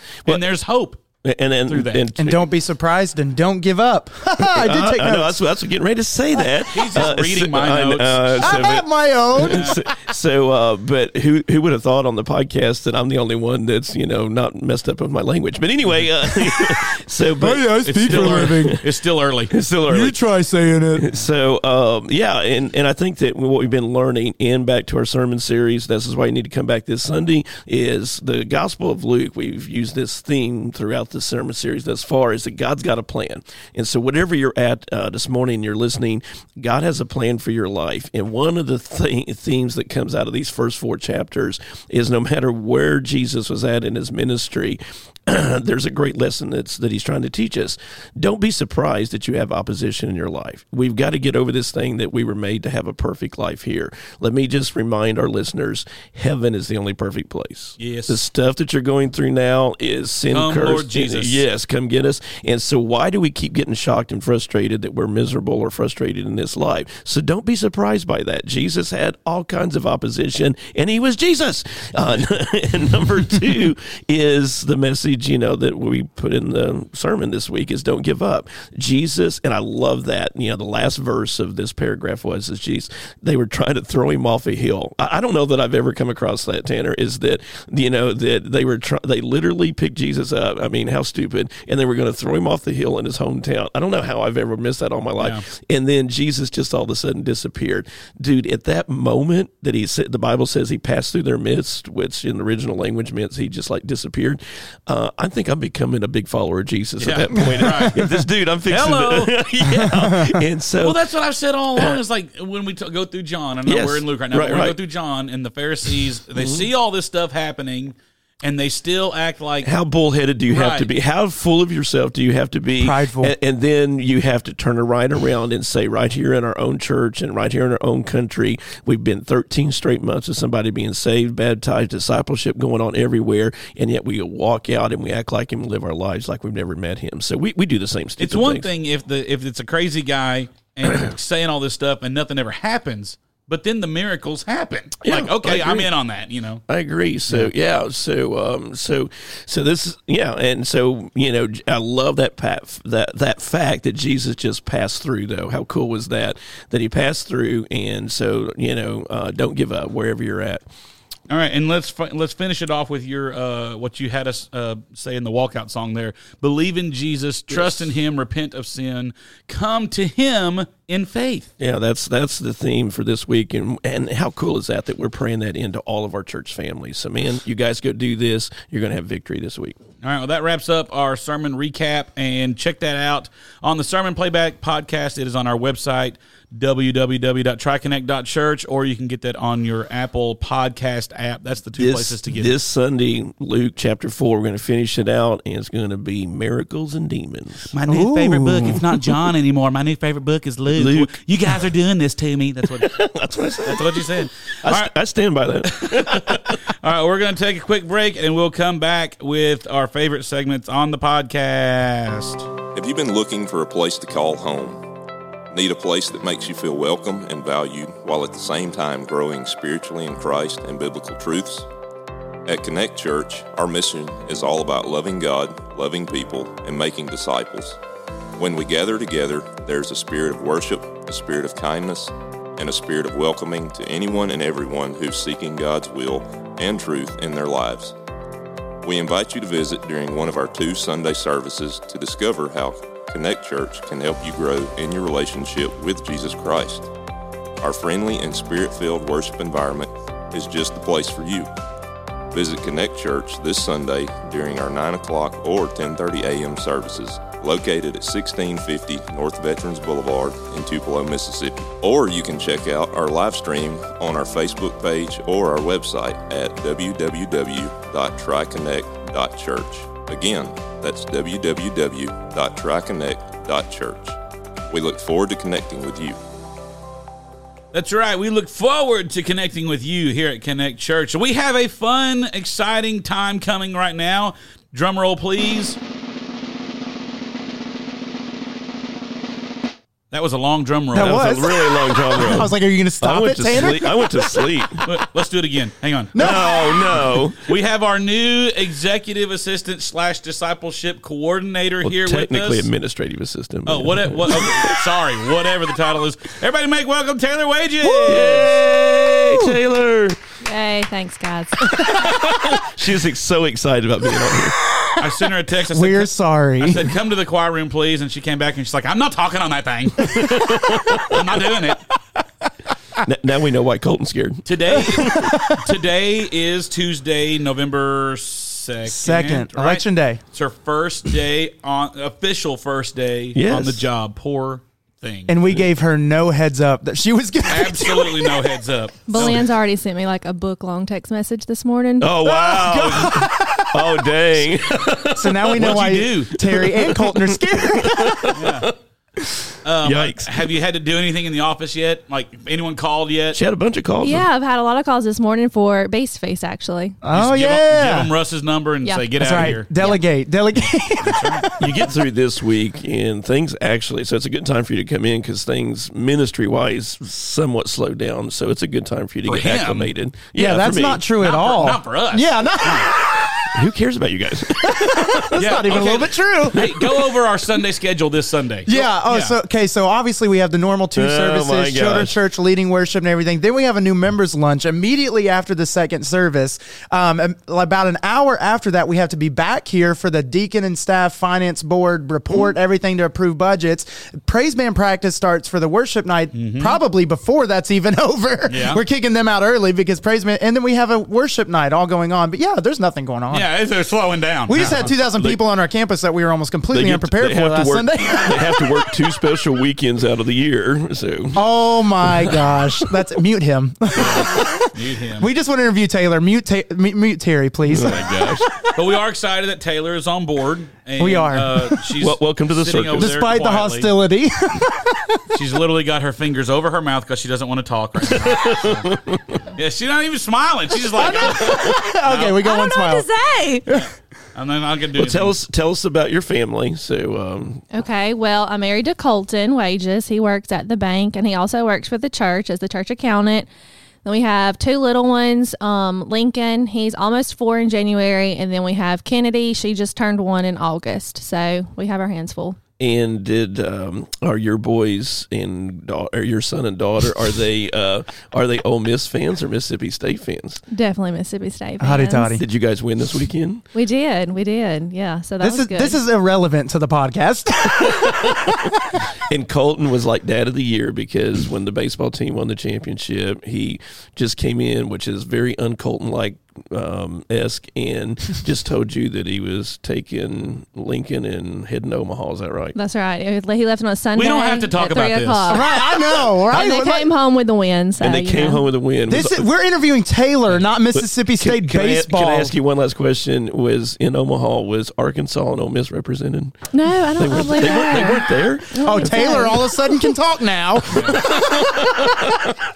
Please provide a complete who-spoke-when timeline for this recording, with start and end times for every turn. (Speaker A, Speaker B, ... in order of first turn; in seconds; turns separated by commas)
Speaker A: 0.3-1.0, Speaker B: 1.2-2.5, Speaker A: 1.7-2.0, Speaker C: 2.2-5.4, Speaker B: 4.4-18.9, Speaker A: 6.7-8.7, Speaker C: 8.4-9.8, Speaker A: 9.4-9.8, Speaker C: 17.4-18.8, Speaker A: 17.9-19.6, Speaker B: 19.5-20.2, Speaker C: 19.9-21.1, Speaker B: 21.0-111.0, Speaker A: 57.8-58.2, Speaker A: 60.3-61.4, Speaker A: 95.2-95.4, Speaker A: 107.0-108.0, Speaker A: 108.7-109.4, Speaker C: 109.8-110.4, Speaker A: 110.8-119.7, Speaker B: 111.8-112.0, Speaker B: 113.7-114.8, Speaker B: 116.4-116.7, Speaker B: 119.6-138.7, Speaker A: 120.5-120.9, Speaker C: 122.8-123.3, Speaker A: 138.2-146.6, Speaker B: 145.0-145.9, Speaker B: 146.7-160.7, Speaker A: 161.3-171.5, Speaker B: 167.5-167.8, Speaker B: 171.6-179.8, Speaker A: 180.0-192.5, Speaker B: 191.8-197.7, Speaker A: 197.7-203.0, Speaker C: 197.9-198.8, Speaker B: 200.7-201.2, Speaker B: 202.6-206.6, Speaker A: 203.7-204.9, Speaker A: 205.7-212.5, Speaker D: 212.8-214.8, Speaker D: 215.5-221.7, Speaker D: 222.5-227.8, Speaker D: 228.4-237.9, Speaker D: 238.8-246.9, Speaker D: 247.6-251.5, Speaker D: 252.3-274.2, Speaker D: 274.7-276.2, Speaker A: 277.7-285.8, Speaker A: 290.1-291.3, Speaker C: 290.9-294.8, Speaker B: 290.9-294.8, Speaker A: 294.8-296.3, Speaker C: 296.1-296.9, Speaker B: 296.2-297.6, Speaker A: 297.4-302.7, Speaker B: 301.8-304.9, Speaker A: 303.7-308.6, Speaker C: 307.8-308.3, Speaker B: 308.0-310.2, Speaker C: 309.1-309.5, Speaker E: 310.4-311.6, Speaker C: 311.7-312.2, Speaker B: 311.9-314.6, Speaker A: 315.0-320.4, Speaker C: 315.7-316.9, Speaker B: 320.0-321.3, Speaker A: 321.0-321.8, Speaker B: 323.0-325.4, Speaker A: 324.5-335.4, Speaker C: 325.1-325.6, Speaker C: 328.9-330.2, Speaker B: 333.3-333.9, Speaker C: 335.3-338.4, Speaker A: 337.5-339.5, Speaker E: 339.1-342.2, Speaker B: 342.0-345.8, Speaker C: 342.2-344.1, Speaker C: 345.1-348.4, Speaker A: 345.6-346.4, Speaker B: 346.4-348.7, Speaker A: 348.3-348.7, Speaker A: 349.6-353.4, Speaker B: 349.8-350.4, Speaker B: 353.3-354.3, Speaker E: 354.0-357.0, Speaker C: 357.0-358.1, Speaker A: 357.1-359.7, Speaker E: 358.8-360.0, Speaker C: 359.2-361.7, Speaker A: 360.6-361.5, Speaker B: 361.6-371.1, Speaker A: 369.3-369.9, Speaker C: 370.4-373.5, Speaker A: 371.2-372.9, Speaker B: 373.5-375.5, Speaker C: 374.6-376.6, Speaker A: 375.4-379.4, Speaker B: 376.6-377.1, Speaker C: 378.7-403.5, Speaker B: 380.9-382.2, Speaker A: 396.3-396.8, Speaker A: 398.5-398.8, Speaker A: 403.3-404.9, Speaker C: 404.5-408.8, Speaker B: 406.7-411.4, Speaker C: 411.4-418.1, Speaker B: 412.0-412.9, Speaker A: 414.0-415.3, Speaker B: 417.6-418.5, Speaker A: 418.7-423.9, Speaker C: 421.0-421.9, Speaker B: 422.0-423.2, Speaker C: 423.0-425.3, Speaker A: 425.3-428.9, Speaker B: 428.1-429.4, Speaker A: 429.6-432.4, Speaker C: 431.0-433.1, Speaker E: 432.4-433.6, Speaker A: 433.7-435.4, Speaker B: 435.0-437.7, Speaker E: 437.7-443.5, Speaker E: 444.0-452.6, Speaker B: 452.8-460.6, Speaker E: 460.7-462.4, Speaker C: 461.8-462.4, Speaker B: 462.4-463.6, Speaker E: 463.7-466.0, Speaker C: 465.4-468.7, Speaker B: 467.8-468.5, Speaker B: 469.3-482.8, Speaker E: 482.8-488.7, Speaker A: 484.1-485.7, Speaker C: 485.5-487.1, Speaker B: 488.0-489.5, Speaker C: 489.1-492.5, Speaker B: 490.9-499.2, Speaker E: 496.7-499.8, Speaker C: 498.8-501.8, Speaker A: 500.9-501.2, Speaker B: 501.2-502.5